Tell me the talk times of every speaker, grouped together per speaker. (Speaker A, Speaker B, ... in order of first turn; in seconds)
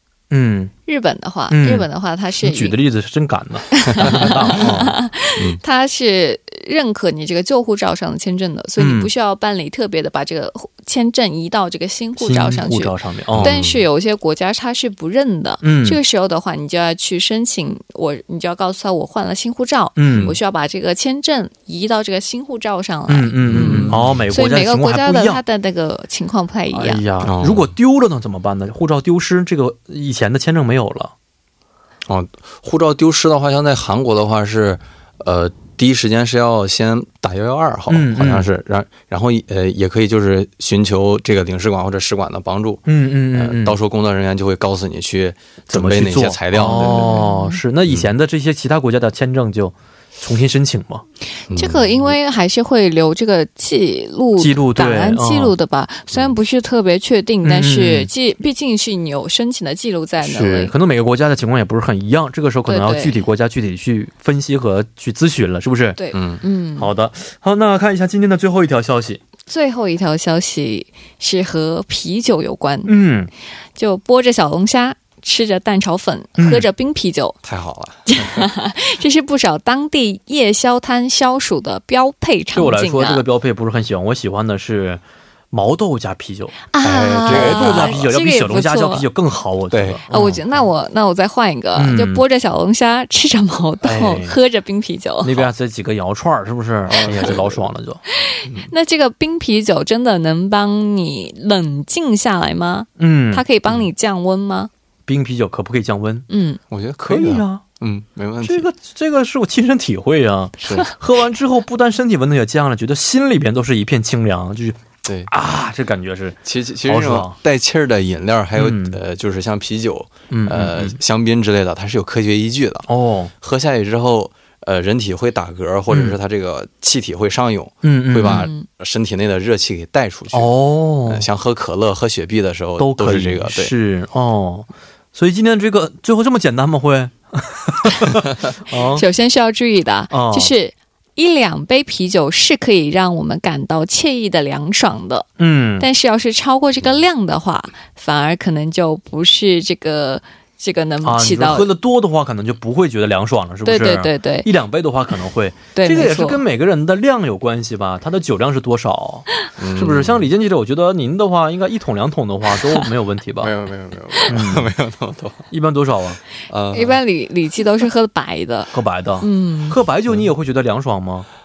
Speaker A: 0.3-0.7, 1.5-1.9, 2.4-4.9, 8.8-9.1, 12.2-13.5, 15.6-16.0, 20.0-20.3, 23.1-25.4, 26.7-31.1, 37.9-38.5, 42.9-43.8, 45.7-51.0, 54.4-55.5, 57.4-58.1, 60.2-66.0, 66.8-69.2, 72.8-73.3, 76.4-76.7, 82.5-85.0, 85.5-86.7, 87.2-90.4, 91.8-92.2, 93.8-94.3, 95.2-98.0, 103.0-103.4, 105.1-106.2, 107.0-107.6, 108.4-117.4, 118.6-119.0, 120.3-121.0, 122.9-123.3, 125.9-126.2, 127.8-128.5, 130.3-131.2, 132.8-139.0, 140.1-140.5, 145.4-145.9, 151.0-163.5, 164.3-164.7, 165.5-166.2, 168.7-171.3
Speaker B: 0.9-2.8, 3.7-27.0, 46.7-47.6, 51.5-60.7, 62.7-63.2, 66.0-66.9, 69.5-72.9, 73.8-77.4, 78.1-83.2, 86.7-89.0, 90.1-95.5, 98.1-104.7, 106.3-106.6, 128.2-128.7, 138.7-151.7, 153.6-154.5, 155.7-156.4, 166.7-169.8
Speaker C: 4.0-4.7, 13.3-13.8, 23.5-24.2, 27.2-27.7, 32.1-47.2, 51.5-52.1, 66.1-66.4, 77.4-78.5, 86.8-88.1, 89.7-90.6, 96.9-97.6, 106.7-108.7, 110.6-110.9, 115.0-115.3, 116.4-122.9, 123.4-130.5, 131.1-133.7, 159.6-160.3, 163.4-165.5, 166.5-167.0